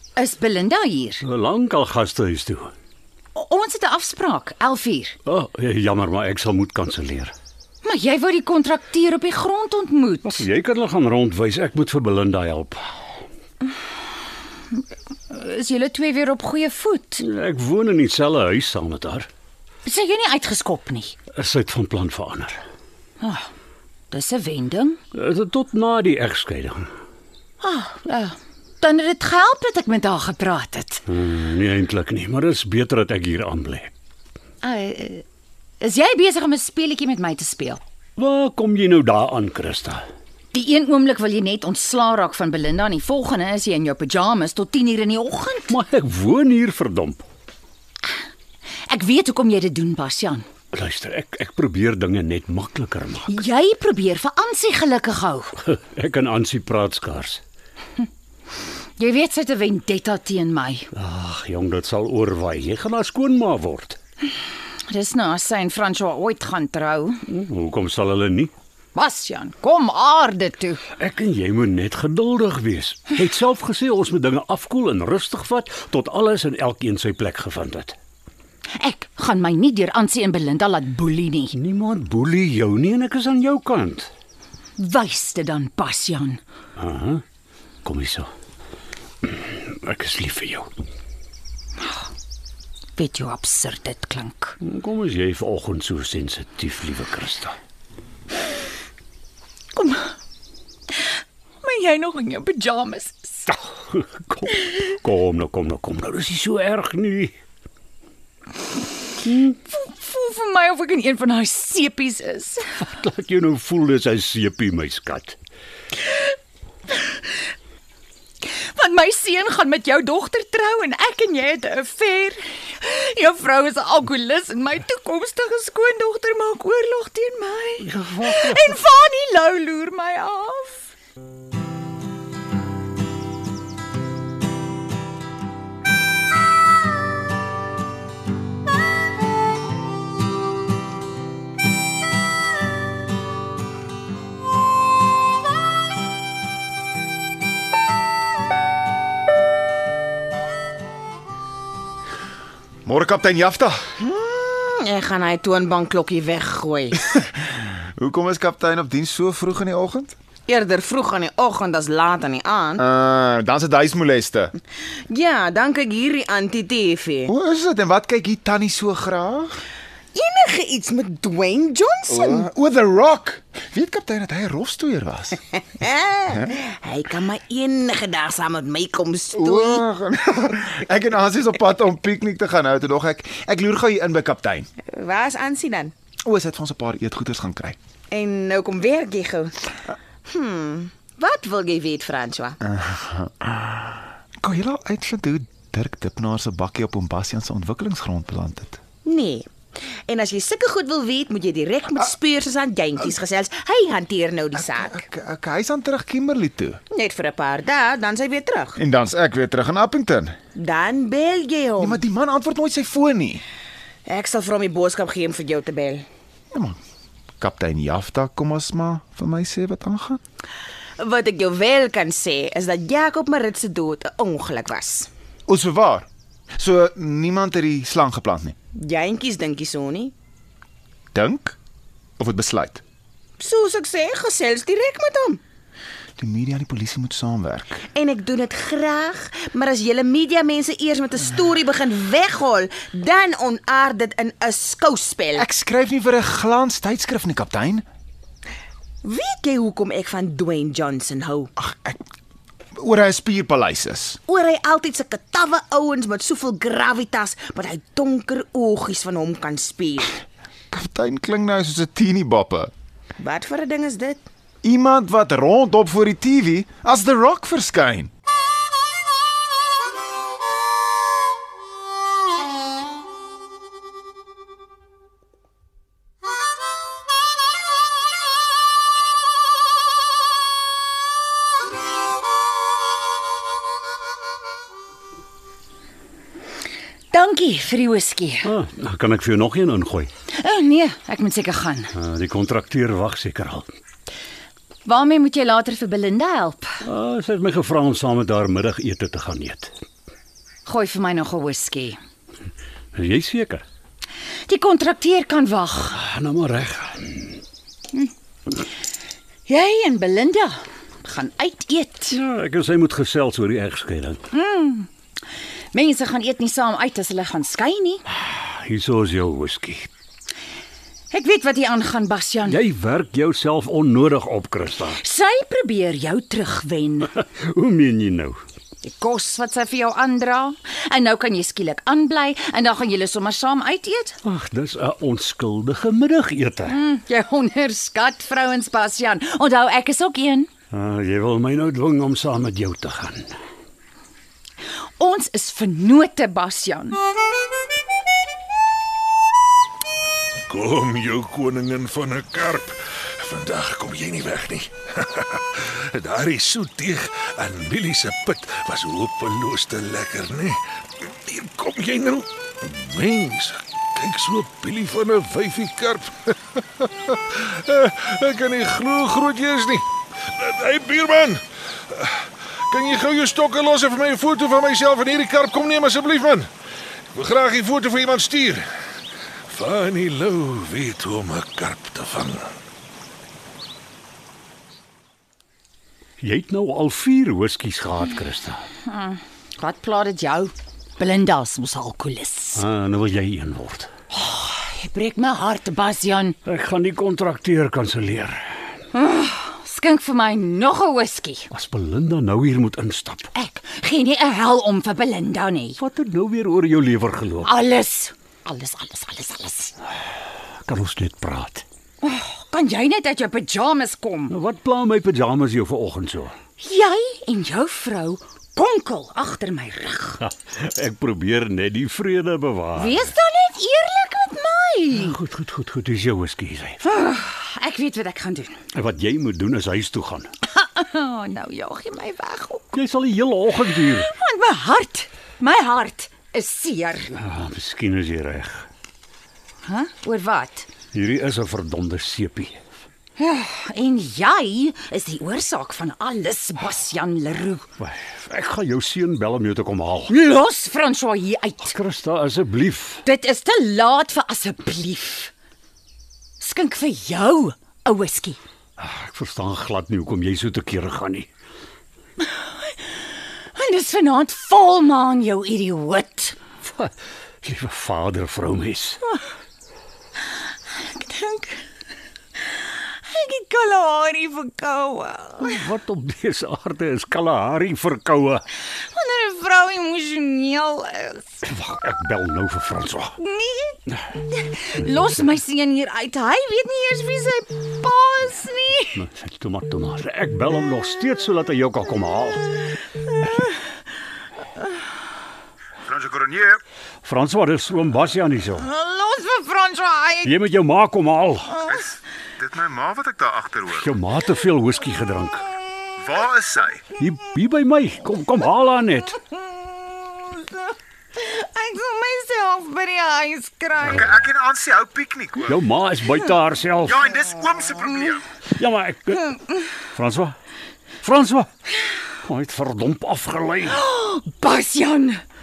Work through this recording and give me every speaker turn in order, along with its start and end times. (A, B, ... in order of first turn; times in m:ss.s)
0:00.2-0:01.2 A
0:01.2-0:02.7 B
0:03.3-0:05.2 A
0:05.2-0:07.3 B
0:07.8-0:10.5 A
0:10.2-0:13.1 B
0:14.7-0:17.2 A
0:17.2-0:19.3 B
0:19.8-0:21.2 A
0:21.3-0:22.6 B
0:23.2-0:23.5 A
0:24.1-0:25.0 A
0:25.1-0:26.9 B
0:27.6-0:31.0 A
0:31.1-0:33.9 B
0:34.6-0:35.2 A
0:35.8-0:37.8 A
0:38.2-0:40.1 B
0:40.5-0:45.8 A
0:45.7-0:47.2 B
0:48.9-0:50.5 A
0:50.7-0:53.3 B
0:53.3-0:55.6 A
0:55.6-0:57.4 B
0:59.0-1:00.9 A
1:00.9-1:04.0 B
1:04.9-1:07.2 A
1:07.3-1:08.5 B
1:09.0-1:10.8 A
1:11.0-1:18.0 B
1:18.8-1:21.6 A
1:21.5-1:24.1 B
1:24.8-1:26.4 A
1:26.8-1:27.2 B
1:27.8-1:28.3 B
1:29.2-1:30.7 B
1:33.0-1:34.6 A
1:34.6-1:37.6 B
1:39.7-1:40.1 A
1:41.6-1:43.6 A
1:43.9-1:47.4 B
1:49.2-1:52.6 A
1:52.8-1:55.4 B
1:57.0-1:57.2 A
1:58.4-2:10.8 A
2:07.8-2:08.6 B
2:32.9-2:33.8 C
2:34.0-2:37.0 D
2:37.1-2:40.2 C
2:40.5-2:42.8 D
2:42.8-2:44.5 C
2:45.1-2:47.3 D
2:47.3-2:49.6 C
2:50.1-2:52.5 D
2:52.1-2:55.4 C
2:55.7-2:59.8 D
2:59.3-3:04.7 C
3:04.9-3:05.9 D
3:06.2-3:07.8 C
3:08.1-3:09.7 D
3:10.3-3:12.6 D
3:12.6-3:13.5 C
3:14.4-3:18.8 C
3:19.0-3:19.5 D
3:20.1-3:25.0 D
3:24.5-3:26.8 C
3:26.9-3:28.8 D
3:28.8-3:30.4 C
3:30.6-3:32.0 D
3:31.8-3:33.4 C
3:34.1-3:36.1 D
3:36.5-3:36.8 C
3:37.4-3:40.2 C
3:41.0-3:45.1 D
3:45.5-3:46.1 C
3:46.6-3:48.6 C
3:48.8-3:50.1 D
3:51.1-3:51.6 C
3:52.2-3:52.8 C
3:53.4-3:55.4 D
3:56.2-3:57.8 C
3:57.9-4:05.4 D
4:05.3-4:07.8 C
4:09.0-4:11.5 D
4:11.6-4:12.0 C
4:12.8-4:14.2 C
4:14.3-4:20.2 D
4:20.7-4:22.7 C
4:23.2-4:24.2 D
4:24.6-4:28.1 C
4:47.1-4:48.5 A
4:48.4-4:50.1 B
4:50.3-4:51.9 A
4:52.0-4:53.7 B
4:54.8-4:56.8 A
4:56.8-4:59.7 B
5:00.7-5:02.0 A
5:02.9-5:03.6 B
5:04.5-5:06.0 A
5:06.0-5:07.4 B
5:09.5-5:12.2 A
5:12.1-5:14.2 B
5:14.3-5:14.9 A
5:15.7-5:18.0 A
5:18.1-5:19.9 B
5:21.1-5:22.6 A
5:22.5-5:25.0 B
5:24.9-5:27.1 A
5:27.1-5:28.4 B
5:28.8-5:34.2 A
5:34.2-5:36.8 B
5:36.7-5:40.5 A
5:40.7-5:43.4 B
5:45.0-5:47.0 A
5:50.5-6:00.6 E
6:01.2-6:16.5 E
6:17.1-6:18.7 E
6:19.5-6:22.4 E
6:26.2-6:28.7 B
6:28.9-6:32.6 A
6:32.6-6:33.9 B
6:34.1-6:36.4 A
6:36.4-6:38.6 B
6:38.9-6:41.5 A
6:41.5-6:43.3 B
6:43.3-6:45.8 A
6:45.8-6:47.5 B
6:47.4-6:49.7 A
6:50.6-6:51.6 B
6:52.0-6:54.4 A
6:54.3-6:56.4 B
6:56.6-7:00.2 A
7:00.2-7:03.1 B
7:02.8-7:05.2 A
7:04.9-7:06.8 B
7:06.8-7:08.6 A
7:08.7-7:10.3 B
7:10.4-7:12.7 A
7:12.7-7:14.1 B
7:13.8-7:17.1 A
7:17.1-7:18.7 B
7:19.6-7:20.7 A
7:20.9-7:22.6 B
7:23.2-7:27.7 A
7:27.8-7:30.1 B
7:30.1-7:31.8 A
7:31.7-7:33.0 B
7:33.0-7:35.3 A
7:36.4-7:38.4 A
7:38.8-7:41.3 B
7:43.5-7:46.4 A
7:46.6-7:49.0 B
7:50.8-7:51.6 A
7:52.6-7:55.6 A
7:55.4-7:58.4 B
7:58.6-8:01.4 A
8:01.4-8:03.2 B
8:03.2-8:09.0 A
8:09.0-8:12.5 B
8:15.9-8:16.6 C
8:17.0-8:18.7 B
8:18.6-8:20.3 A
8:20.2-8:21.6 B
8:21.7-8:24.0 C
8:23.7-8:25.5 B
8:26.0-8:26.9 C
8:27.0-8:29.2 B
8:29.6-8:30.6 A
8:31.2-8:34.1 A
8:33.8-8:35.6 C
8:35.5-8:37.0 B
8:36.8-8:38.3 C
8:38.5-8:39.4 B
8:39.9-8:40.4 B
8:41.0-8:41.5 B
8:42.2-8:43.8 B
8:43.6-8:45.2 A